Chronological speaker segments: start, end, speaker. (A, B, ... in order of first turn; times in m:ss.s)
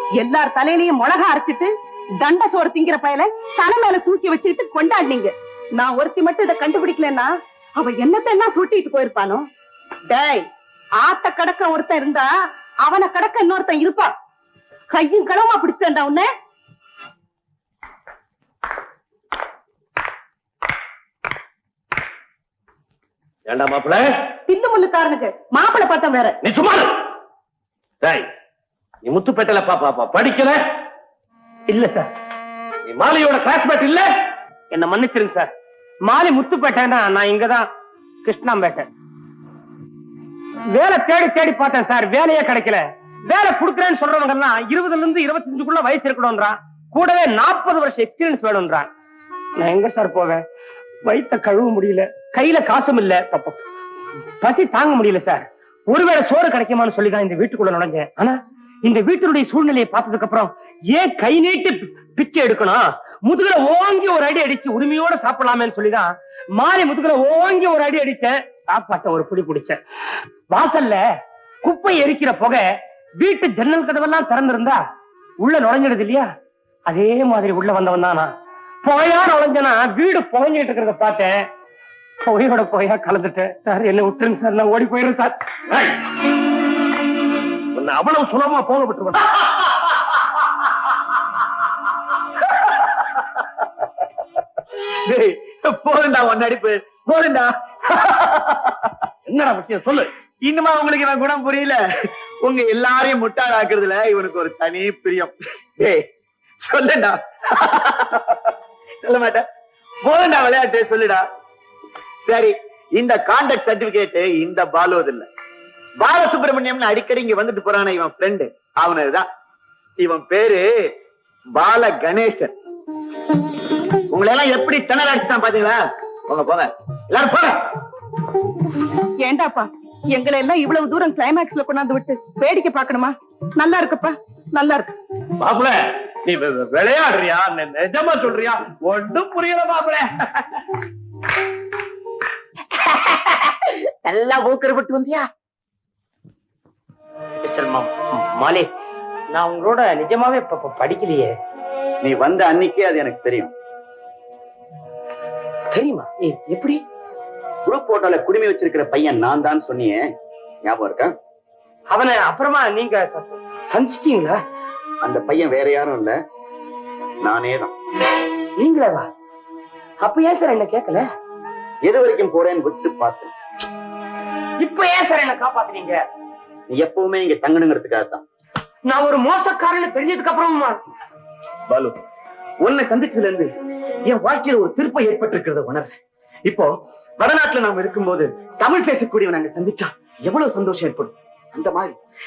0:00.2-0:09.5 A
0:10.1-0:12.3 A
0:12.8-0:14.1 A
0:14.9-0:16.3 A
0:23.4-0:24.1 B
0:24.5-0:26.4 A
0:26.4-0:26.9 B
0:28.0-0:28.3 B
0:29.0-0:30.6 B
0:31.7-0:32.1 C
0:32.9-0:34.1 B
0:34.7-0:35.5 C
0:36.1-0:37.6 C
0:38.2-0:38.9 C
0:40.7-0:48.9 C
0:49.6-0:50.4 C
0:51.0-0:53.6 C
0:54.4-1:09.8 C
1:10.5-1:11.0 C
1:11.6-1:12.7 C
1:13.2-1:14.8 C
1:15.4-1:16.3 C
1:16.9-1:18.3 C
1:18.8-1:21.4 C
1:22.2-1:25.3 C
1:27.7-1:29.7 B
1:35.0-1:38.8 D
1:39.2-1:40.1 B
1:40.4-1:41.8 D
1:42.4-1:46.0 D
1:46.6-1:48.5 D
1:49.0-1:49.4 D
1:50.0-1:51.2 D
1:52.2-1:55.3 D
1:56.0-1:59.2 D
2:00.0-2:00.7 D
2:01.5-2:02.5 D
2:04.1-2:07.6 D
2:09.2-2:14.9 A
2:15.4-2:20.4 B
2:27.4-2:28.7 C
2:29.3-2:31.4 C
2:32.0-2:33.5 D
2:35.7-2:36.8 C
2:37.6-2:40.0 D
2:40.6-2:41.1 D
2:41.9-2:44.4 C
2:45.0-2:46.2 D
2:47.2-2:47.7 D
2:48.6-2:49.1 C
2:50.0-2:51.0 C
2:51.8-2:53.3 D
2:54.6-2:56.0 C
2:56.7-2:58.2 D
2:58.9-3:00.7 C
3:01.7-3:02.0 D
3:02.6-3:03.5 D
3:04.1-3:12.0 D